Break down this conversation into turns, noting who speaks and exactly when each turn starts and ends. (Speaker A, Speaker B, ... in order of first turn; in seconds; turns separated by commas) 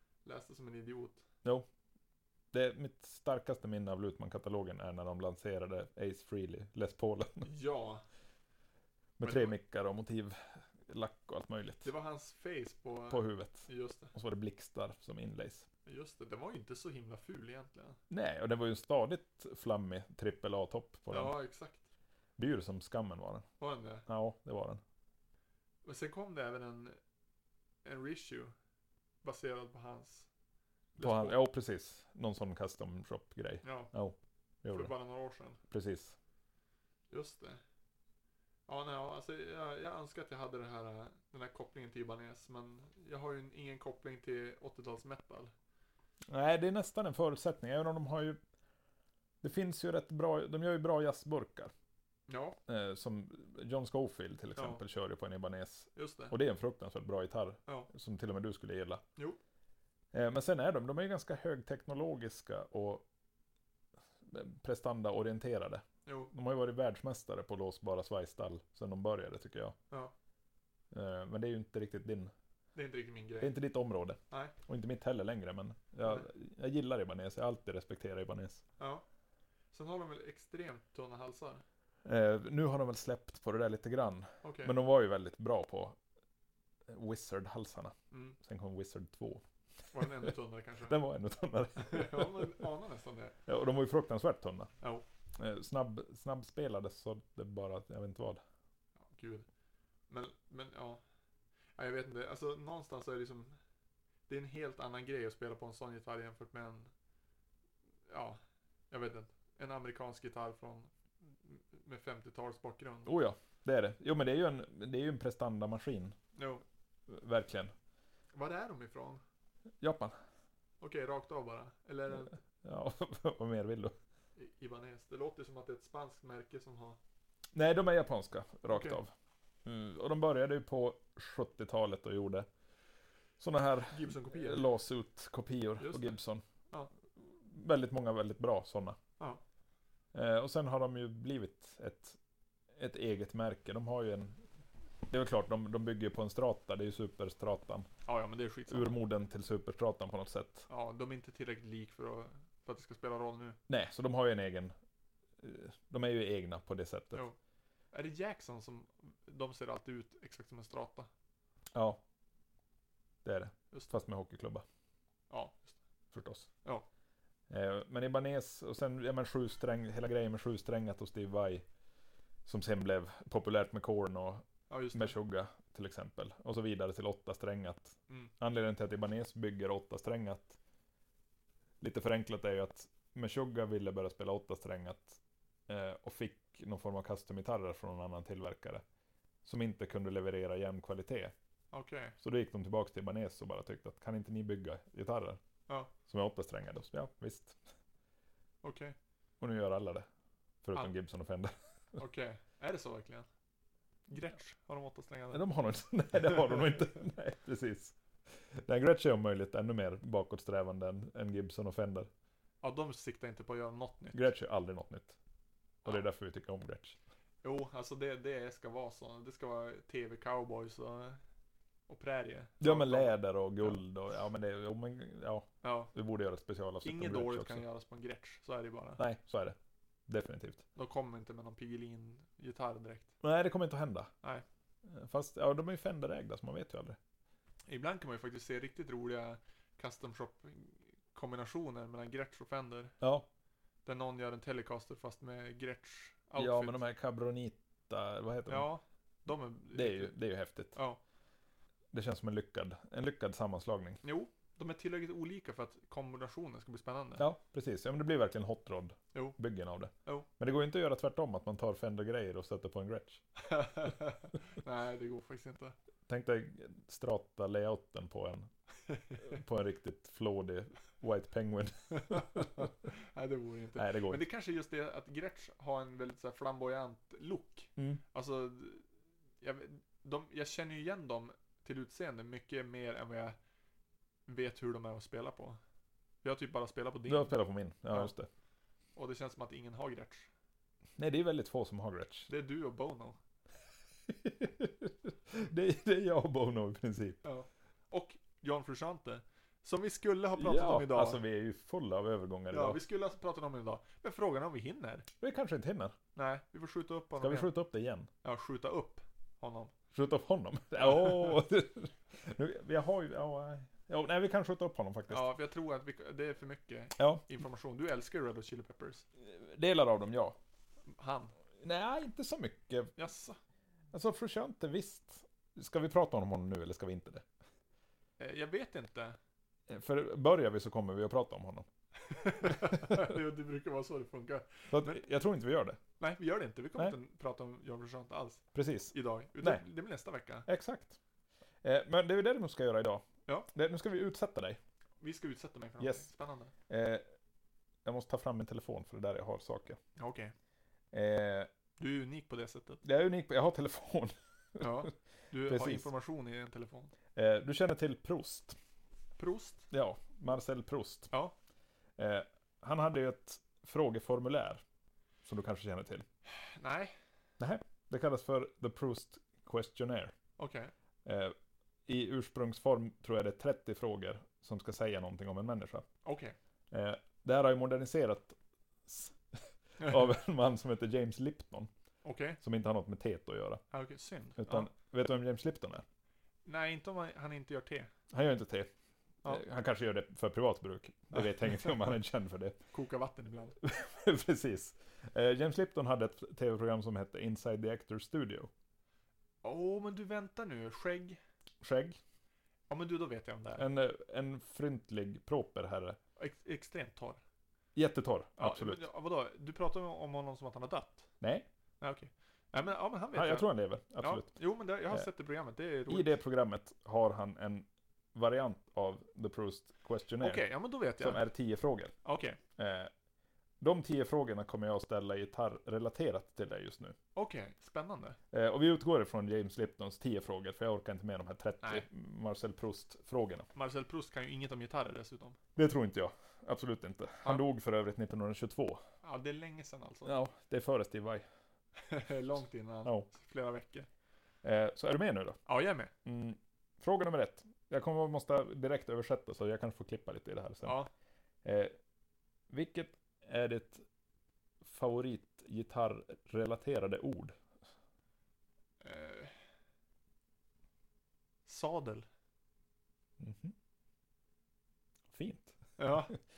Speaker A: 0.2-1.2, Speaker B: 2.5-7.5, Speaker A: 7.4-8.0, Speaker B: 9.2-11.9, Speaker A: 9.2-9.5, Speaker A: 11.8-14.1, Speaker B: 13.1-15.7, Speaker A: 15.8-18.0, Speaker B: 18.1-21.3, Speaker A: 21.1-21.8, Speaker B: 22.4-23.4, Speaker A: 23.6-24.1, Speaker B: 24.1-24.8, Speaker A: 25.8-27.0, Speaker A: 27.8-28.5, Speaker A: 29.2-30.3, Speaker A: 31.0-31.4, Speaker B: 31.0-34.9, Speaker A: 33.6-33.9, Speaker A: 34.7-35.6, Speaker B: 35.7-36.1, Speaker A: 37.1-37.6, Speaker A: 38.7-45.5, Speaker B: 46.3-48.4, Speaker B: 49.4-51.7, Speaker A: 52.3-52.6, Speaker B: 52.7-59.0, Speaker A: 54.6-54.8, Speaker A: 55.9-56.3, Speaker B: 60.1-63.0, Speaker B: 64.2-69.8, Speaker A: 66.0-66.3, Speaker B: 70.9-72.3, Speaker A: 72.7-73.5, Speaker B: 73.4-78.6, Speaker A: 79.7-81.6, Speaker B: 82.0-86.0, Speaker A: 84.4-84.7, Speaker B: 86.9-89.4, Speaker A: 88.1-88.4, Speaker A: 89.9-91.0, Speaker B: 90.0-90.3, Speaker B: 90.8-92.6, Speaker A: 91.8-93.3, Speaker B: 93.5-94.7, Speaker B: 95.4-98.4, Speaker A: 99.0-99.5, Speaker A: 100.1-101.0, Speaker A: 101.8-103.5, Speaker A: 104.3-106.9, Speaker A: 108.1-108.4, Speaker A: 108.9-110.9, Speaker A: 111.4-113.1, Speaker B: 113.0-116.2, Speaker A: 116.3-116.6, Speaker B: 117.1-117.7, Speaker A: 118.3-119.2, Speaker B: 119.8-120.1, Speaker A: 120.8-122.4, Speaker B: 122.6-123.9, Speaker A: 124.4-127.0, Speaker B: 127.5-129.1, Speaker A: 128.7-129.0, Speaker B: 129.6-132.5, Speaker B: 133.4-136.4, Speaker A: 133.9-134.6, Speaker A: 135.8-136.2, Speaker B: 137.2-139.0, Speaker B: 140.1-142.2, Speaker B: 142.8-144.4, Speaker B: 145.1-147.9, Speaker A: 148.1-149.0, Speaker B: 148.7-150.7, Speaker A: 150.7-153.6, Speaker B: 153.7-154.7, Speaker B: 155.4-157.2, Speaker A: 157.9-161.1, Speaker B: 161.7-162.0, Speaker B: 163.2-164.6, Speaker A: 165.3-165.8, Speaker B: 166.1-166.5, Speaker B: 167.5-171.6, Speaker B: 172.4-180.6, Speaker A: 174.7-175.2, Speaker B: 181.8-188.8, Speaker B: 189.4-191.3, Speaker A: 191.7-192.2, Speaker B: 192.2-195.4, Speaker B: 196.1-197.6, Speaker A: 198.6-198.9, Speaker B: 199.4-200.1, Speaker B: 200.6-201.5, Speaker A: 202.0-203.3, Speaker A: 204.1-205.4, Speaker B: 205.3-212.1, Speaker A: 212.6-214.3, Speaker B: 214.1-215.2, Speaker B: 215.8-217.0, Speaker A: 217.4-221.2, Speaker A: 221.9-223.8, Speaker B: 222.6-227.6, Speaker A: 225.6-225.9, Speaker A: 226.8-229.0, Speaker B: 229.0-229.6, Speaker B: 230.1-230.6, Speaker A: 230.7-233.1, Speaker B: 233.2-234.1, Speaker B: 234.9-237.0, Speaker A: 237.7-242.9, Speaker B: 243.0-243.3, Speaker A: 243.8-246.8, Speaker B: 246.3-248.7, Speaker A: 248.5-250.1, Speaker B: 249.7-250.7, Speaker A: 250.7-251.0, Speaker B: 251.9-254.0, Speaker A: 254.0-257.2, Speaker B: 257.2-263.2, Speaker A: 263.4-265.7, Speaker B: 266.1-268.5, Speaker A: 268.9-269.3, Speaker B: 269.2-272.7, Speaker A: 271.9-278.8, Speaker B: 273.8-274.2, Speaker B: 277.8-278.0, Speaker A: 279.4-283.4, Speaker A: 284.3-285.6, Speaker A: 286.2-287.3, Speaker B: 287.1-288.3, Speaker A: 288.9-290.3, Speaker B: 291.0-292.3, Speaker A: 292.3-293.2, Speaker B: 294.1-297.2, Speaker A: 297.2-301.2, Speaker B: 300.4-302.8, Speaker A: 302.5-305.1, Speaker B: 305.2-305.9, Speaker A: 306.1-307.5, Speaker B: 307.2-308.1, Speaker A: 308.2-309.7, Speaker B: 309.9-315.3, Speaker A: 310.8-311.4, Speaker A: 315.1-319.0, Speaker B: 317.0-317.2, Speaker B: 319.2-320.4, Speaker A: 320.9-321.3, Speaker B: 321.6-322.9, Speaker A: 323.0-323.4, Speaker B: 323.9-327.2, Speaker A: 328.2-329.2, Speaker B: 329.7-331.7, Speaker A: 332.0-335.0, Speaker B: 334.7-335.8, Speaker A: 336.0-340.5, Speaker B: 338.5-339.6, Speaker B: 340.4-341.0, Speaker B: 341.6-344.6, Speaker A: 345.0-346.5, Speaker B: 345.8-346.1, Speaker B: 346.7-347.0, Speaker B: 347.8-349.8, Speaker A: 350.0-350.3, Speaker B: 350.9-351.5, Speaker A: 351.8-352.8, Speaker B: 352.8-354.9, Speaker A: 354.6-356.9, Speaker B: 355.5-355.9, Speaker B: 357.1-358.6, Speaker A: 359.2-359.6, Speaker B: 359.7-361.1, Speaker B: 362.0-364.6, Speaker B: 365.2-366.1, Speaker A: 366.3-366.9, Speaker B: 367.4-370.1, Speaker A: 370.4-370.7, Speaker B: 371.0-371.3, Speaker B: 371.9-375.9, Speaker A: 376.0-376.3, Speaker B: 376.7-381.7, Speaker A: 382.0-382.4, Speaker B: 382.4-383.6, Speaker A: 383.7-384.7, Speaker B: 384.4-385.8, Speaker A: 386.4-387.9, Speaker B: 388.1-388.7, Speaker B: 389.2-392.6, Speaker A: 391.1-391.7, Speaker A: 392.7-393.6, Speaker B: 393.6-398.5, Speaker A: 399.4-401.2, Speaker B: 401.6-402.0, Speaker A: 402.7-403.7, Speaker B: 403.6-406.0, Speaker A: 406.2-407.2, Speaker B: 407.7-408.8, Speaker A: 408.4-411.1, Speaker B: 411.2-411.5, Speaker A: 411.8-413.5, Speaker B: 413.1-414.3, Speaker A: 414.0-416.1, Speaker B: 415.9-420.4, Speaker A: 420.2-421.3, Speaker B: 421.0-421.9, Speaker A: 422.0-422.4, Speaker B: 422.6-422.9, Speaker B: 423.6-426.9, Speaker A: 427.1-428.2, Speaker B: 428.3-433.5, Speaker A: 433.5-435.4, Speaker B: 435.6-438.8, Speaker A: 439.0-440.1, Speaker B: 440.1-441.2, Speaker A: 441.8-443.9, Speaker B: 444.4-445.4, Speaker A: 445.4-445.9, Speaker B: 446.0-450.8, Speaker A: 450.6-450.9, Speaker B: 451.4-451.7, Speaker B: 452.5-453.8, Speaker B: 454.6-457.4, Speaker A: 458.8-459.3, Speaker A: 461.4-462.1, Speaker B: 463.2-463.5, Speaker B: 465.1-465.6, Speaker A: 465.8-466.1